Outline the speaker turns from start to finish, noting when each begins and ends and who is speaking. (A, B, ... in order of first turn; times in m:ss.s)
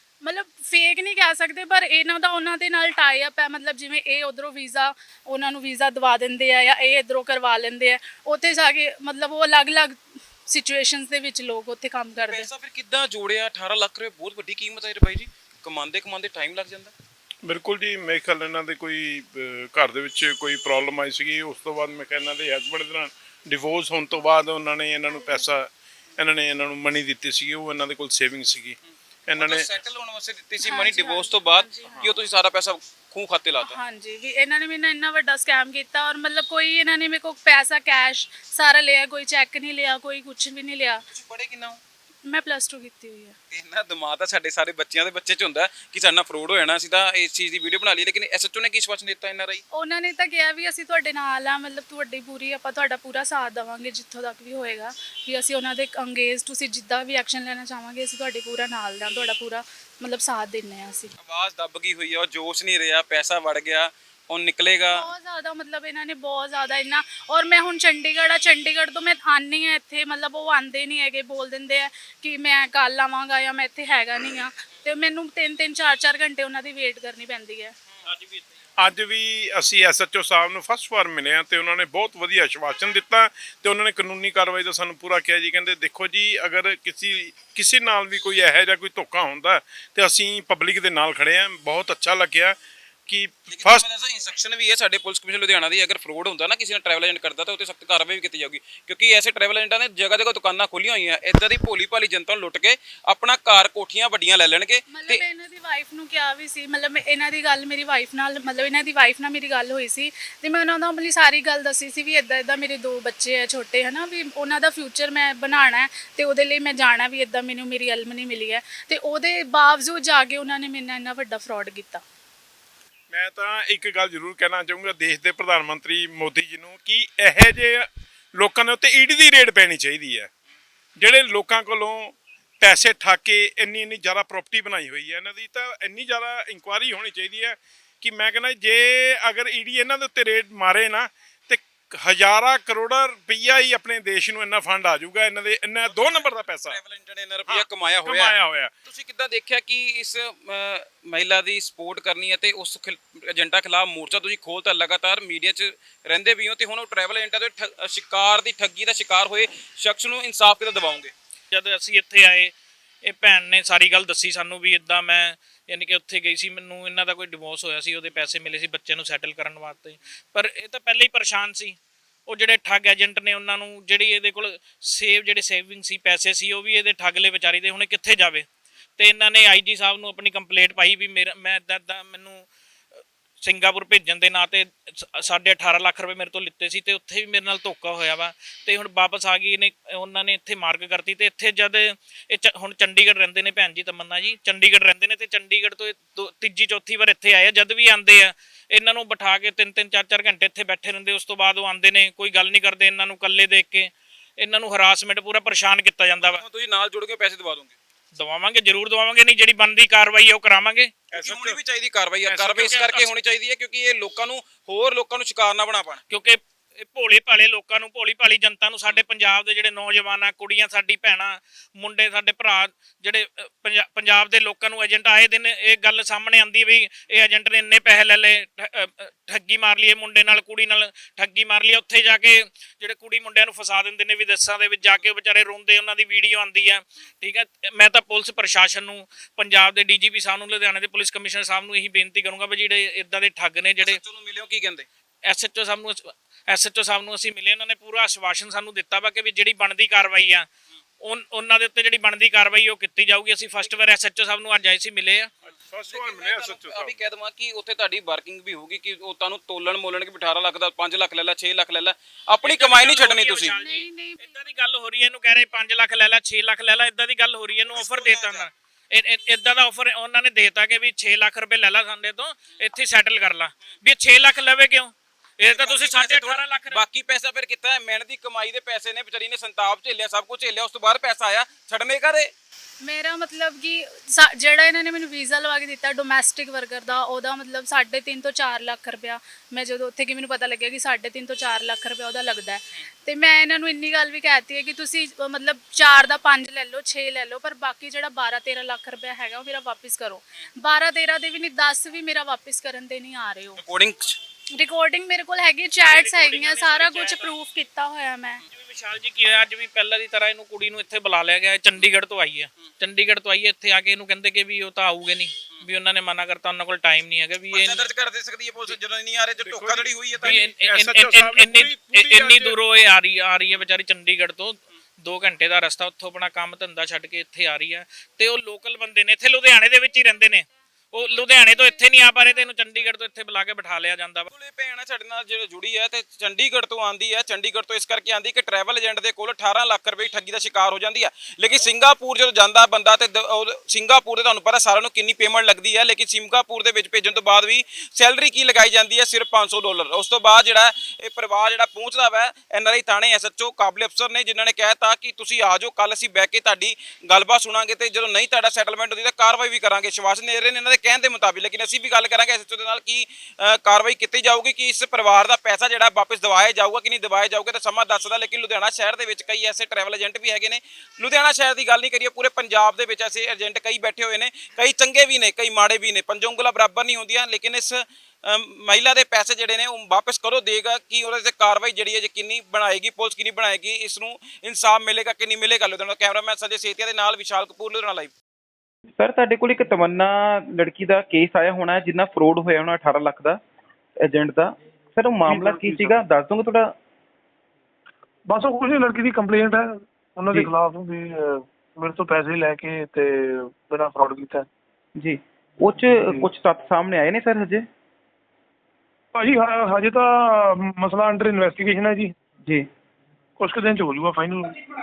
0:00.2-0:12.5 A
0:12.2-0:16.9 B
0:17.4-0:29.7 C
0:25.2-0:25.5 A
0:29.4-0:33.8 B
0:30.6-0:32.1 A
0:33.6-0:41.0 A
0:41.1-0:41.8 B
0:42.3-0:43.4 A
0:43.5-0:49.6 B
0:49.7-1:01.1 A
1:01.2-1:05.1 B
1:04.8-1:17.8 A
1:18.1-1:18.4 D
1:18.8-1:33.8 C
1:33.5-1:45.2 B
1:44.9-2:02.0 A
2:03.1-2:10.3 C
2:11.0-2:26.8 C
2:25.9-2:41.1 B
2:27.5-2:28.7 C
2:41.5-2:58.5 D
2:59.0-3:02.5 D
3:03.4-3:26.4 D
3:26.2-3:27.8 B
3:28.2-3:30.9 D
3:31.1-3:31.6 C
3:31.1-3:36.0 B
3:32.3-3:33.1 D
3:36.1-4:04.0 D
4:03.8-4:04.9 B
4:05.3-4:10.5 D
4:11.0-4:15.3 D
4:15.5-4:17.0 C
4:15.9-4:23.5 B
4:22.4-4:36.8 D
4:23.6-4:24.3 A
4:27.7-4:28.5 B
4:35.5-4:42.3 B
4:42.8-5:03.6 A
5:03.6-5:04.2 B
5:04.6-5:08.4 A
5:05.9-5:07.3 D
5:08.5-5:17.9 D
5:17.5-5:20.4 B
5:19.4-5:22.6 C
5:20.2-5:34.3 D
5:34.3-6:28.1 B
6:29.0-6:33.4 E
6:34.0-6:36.7 E
6:35.3-6:35.8 F
6:38.3-6:44.4 F
6:45.0-6:47.6 E
6:49.2-6:52.1 F
6:53.4-6:54.6 F